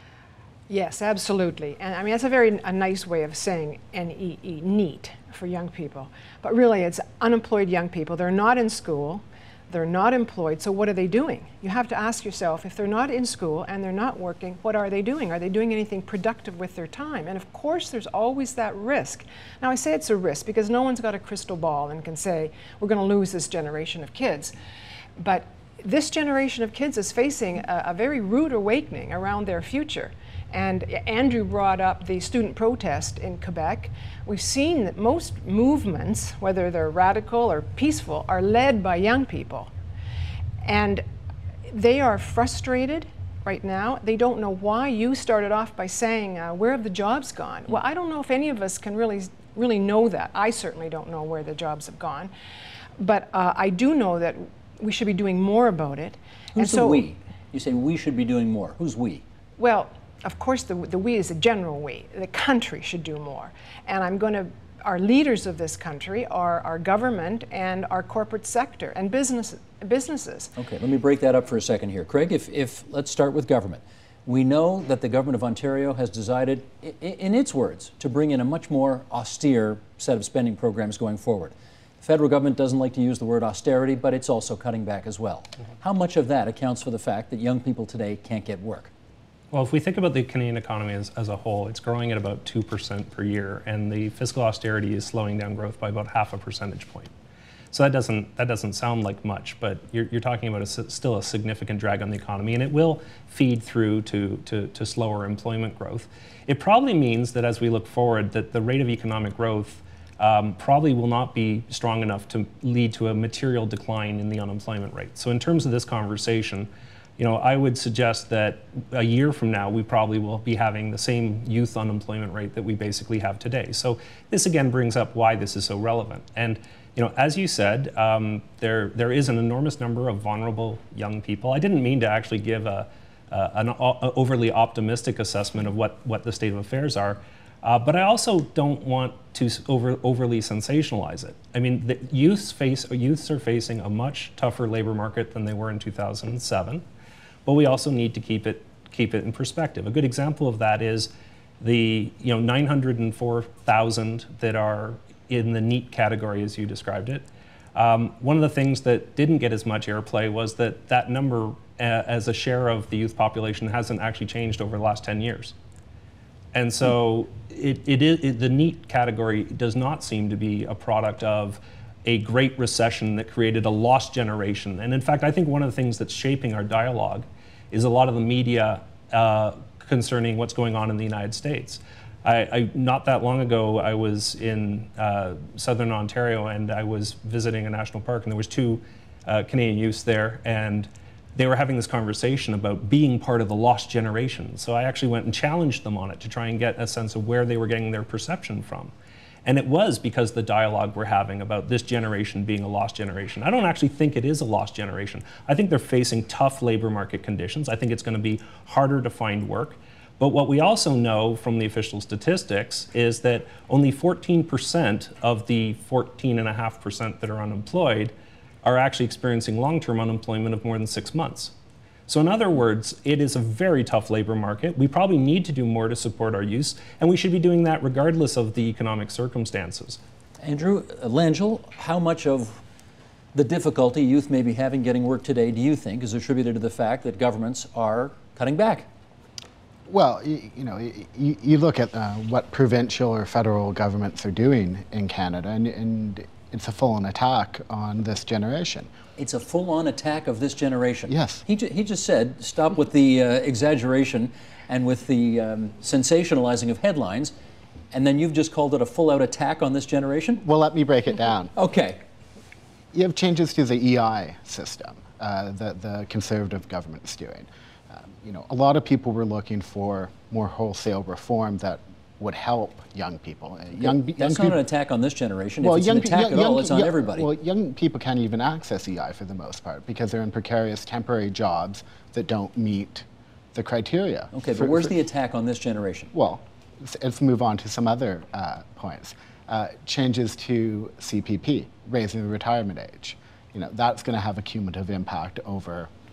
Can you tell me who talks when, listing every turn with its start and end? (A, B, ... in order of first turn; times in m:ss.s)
0:00.7-0:24.5 A
0:25.2-0:39.7 A
0:40.6-0:41.0 A
0:41.7-0:52.3 A
0:53.0-0:57.0 A
0:56.6-0:59.2 B
0:59.6-1:10.5 A
1:10.6-1:28.9 B
1:29.5-1:37.1 C
1:37.7-2:26.8 C
2:27.5-2:45.6 C
2:46.5-3:18.9 C
3:19.4-3:41.5 C
3:42.1-3:50.0 C
3:50.4-3:52.6 B
3:53.4-3:58.9 B
3:59.9-4:08.9 D
4:09.2-4:17.3 B
4:11.1-4:11.4 D
4:17.9-4:20.4 B
4:20.4-4:21.5 D
4:21.6-4:22.0 B
4:22.9-4:34.6 D
4:33.8-4:37.3 B
4:35.6-4:44.9 D
4:44.3-4:46.1 B
4:46.1-4:55.9 D